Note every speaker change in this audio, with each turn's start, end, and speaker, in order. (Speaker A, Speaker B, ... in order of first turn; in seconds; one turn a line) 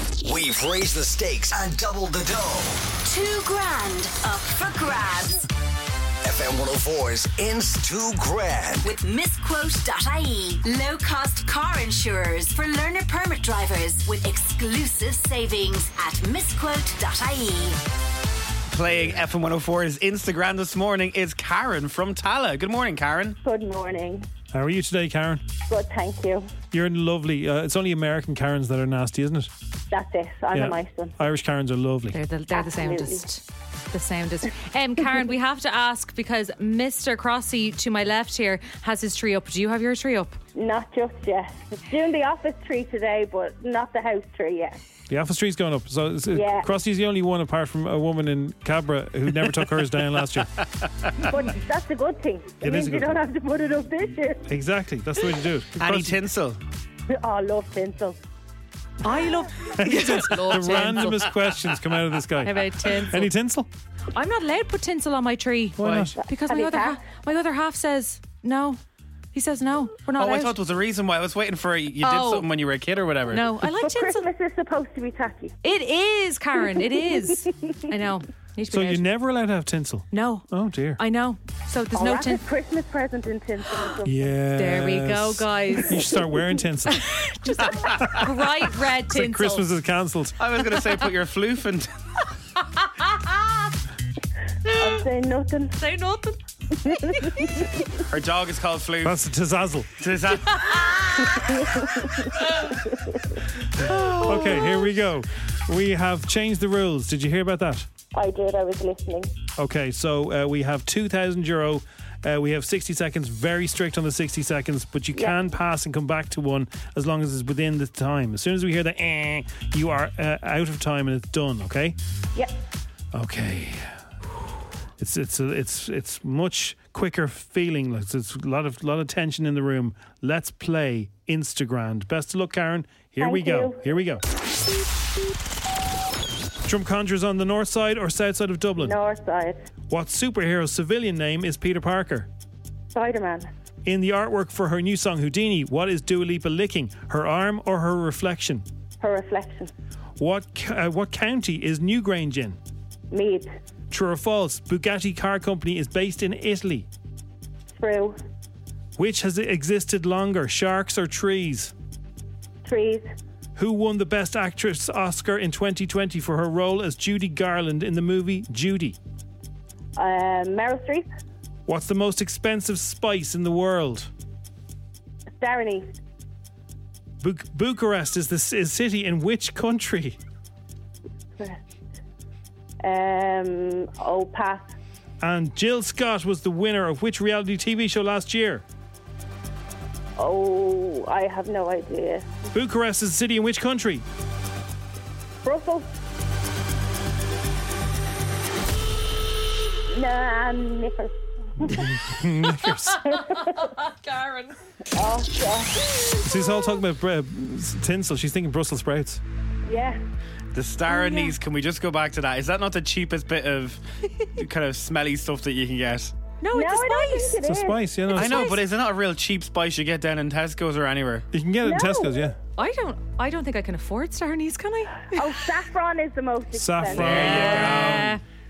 Speaker A: 0.2-2.8
Speaker B: 3.1-5.3
Speaker A: 6.2-8.9
Speaker B: 8.9-17.7
Speaker C: 18.7-23.4
Speaker D: 23.4-24.3
Speaker E: 24.5-25.4
Speaker D: 25.7-26.5
Speaker E: 26.7-29.5
Speaker D: 29.9-31.1
Speaker E: 30.5-32.2
Speaker F: 32.1-40.4
Speaker D: 32.5-33.2
Speaker D: 40.6-44.8
Speaker E: 45.1-50.5
Speaker D: 46.3-46.7
Speaker D: 51.2-54.4
Speaker E: 52.6-53.2
Speaker E: 54.5-56.2
Speaker C: 55.8-56.6
Speaker D: 57.1-58.2
Speaker F: 59.0-61.2
Speaker E: 59.8-63.7
Speaker F: 62.4-63.3
Speaker F: 64.1-68.8
Speaker E: 65.8-66.2
Speaker D: 66.3-67.0
Speaker F: 69.3-70.6
Speaker C: 70.2-73.4
Speaker F: 72.0-72.5
Speaker F: 73.3-74.3
Speaker D: 73.6-75.6
Speaker F: 75.6-79.0
Speaker E: 78.7-81.0
Speaker F: 80.1-80.4
Speaker F: 81.0-82.4
Speaker D: 81.9-84.2
Speaker E: 84.0-87.0
Speaker F: 84.5-86.1
Speaker F: 86.9-89.7
Speaker E: 87.7-88.4
Speaker E: 89.1-90.4
Speaker C: 90.4-91.9
Speaker F: 92.8-93.5
Speaker F: 94.7-95.1
Speaker D: 94.8-95.7
Speaker F: 95.8-96.4
Speaker F: 96.9-97.3
Speaker D: 97.2-97.7
Speaker C: 98.1-99.2
Speaker E: 99.0-100.0
Speaker C: 100.0-100.6
Speaker F: 100.4-101.6
Speaker D: 101.3-103.3
Speaker F: 102.4-102.8
Speaker F: 103.8-104.9
Speaker E: 103.8-107.9
Speaker D: 108.1-109.3
Speaker E: 109.6-122.0
Speaker E: 123.1-123.9
Speaker E: 125.0-134.2
Speaker D: 133.2-133.8
Speaker E: 136.6-139.0
Speaker D: 138.8-139.6
Speaker E: 139.9-142.3
Speaker D: 142.9-143.5
Speaker E: 143.8-148.6
Speaker D: 149.0-149.7
Speaker E: 150.2-152.6
Speaker D: 153.1-153.5
Speaker E: 153.9-156.9
Speaker D: 157.8-158.2
Speaker E: 159.0-161.7
Speaker D: 162.6-163.1
Speaker E: 163.6-169.0
Speaker D: 170.0-171.1
Speaker E: 171.7-174.1
Speaker D: 175.4-175.9
Speaker E: 177.2-180.2
Speaker D: 182.8-184.7
Speaker E: 185.2-188.6
Speaker D: 190.2-192.3
Speaker E: 192.5-194.1
Speaker D: 195.4-195.9
Speaker D: 199.9-201.8
Speaker E: 201.6-203.0
Speaker D: 203.1-203.6
Speaker F: 203.2-204.6
Speaker D: 204.9-205.7
Speaker E: 206.2-209.2
Speaker D: 209.7-210.0
Speaker C: 210.5-213.8
Speaker F: 210.9-211.4
Speaker C: 214.3-216.1
Speaker F: 216.4-217.4
Speaker D: 216.5-217.9
Speaker E: 217.4-218.5
Speaker C: 218.2-221.2
Speaker F: 218.2-218.6
Speaker E: 221.3-222.4
Speaker D: 221.6-222.2
Speaker F: 222.6-225.4
Speaker D: 225.1-227.9
Speaker E: 226.5-228.2
Speaker F: 226.9-228.2
Speaker C: 227.1-227.4